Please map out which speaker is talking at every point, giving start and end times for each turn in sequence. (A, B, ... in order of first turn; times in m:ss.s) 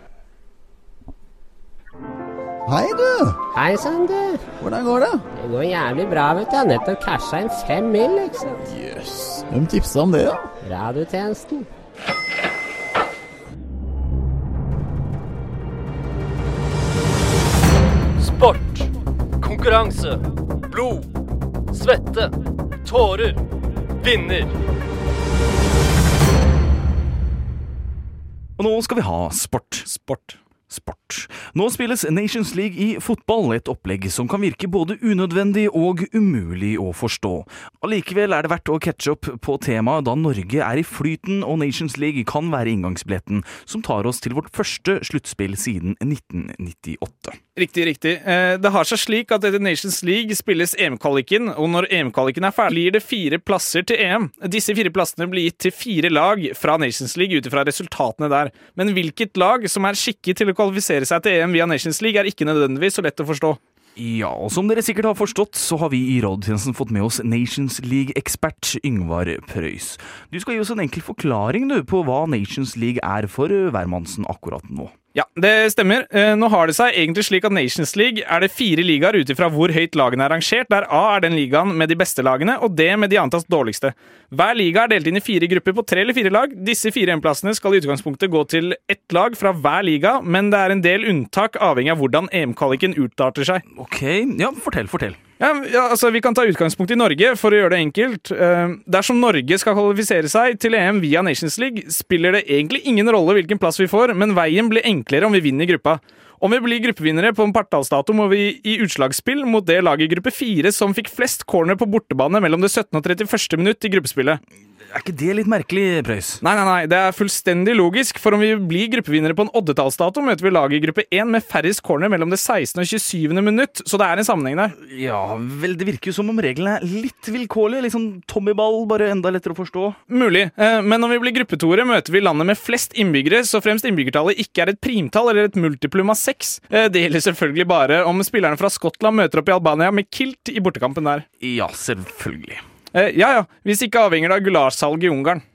0:02.7-0:03.4 A
0:03.5-0:04.4 B
0:04.6-0:05.2 A
0:05.3-0:08.6 B
0:08.6-0:10.5 A
0:10.6-0:11.6 B
0:18.2-0:18.9 C
0:19.4-0:21.1 C
0:21.7-0:22.3 C
0:22.8-0:23.4 C
0:24.0-0:24.5 C
0:28.6-0:29.9 D
0:29.8-0:30.4 E
0:30.7-0:47.4 D
0:47.6-1:03.6 E
1:04.0-1:14.9 D
1:15.1-1:33.6 E
1:33.7-1:35.2 D
1:35.4-1:54.4 E
1:54.9-1:56.4 D
1:56.4-2:04.7 E
2:04.8-2:10.0 D
2:10.1-2:21.2 E
2:21.4-2:22.6 D
2:22.9-2:25.4 E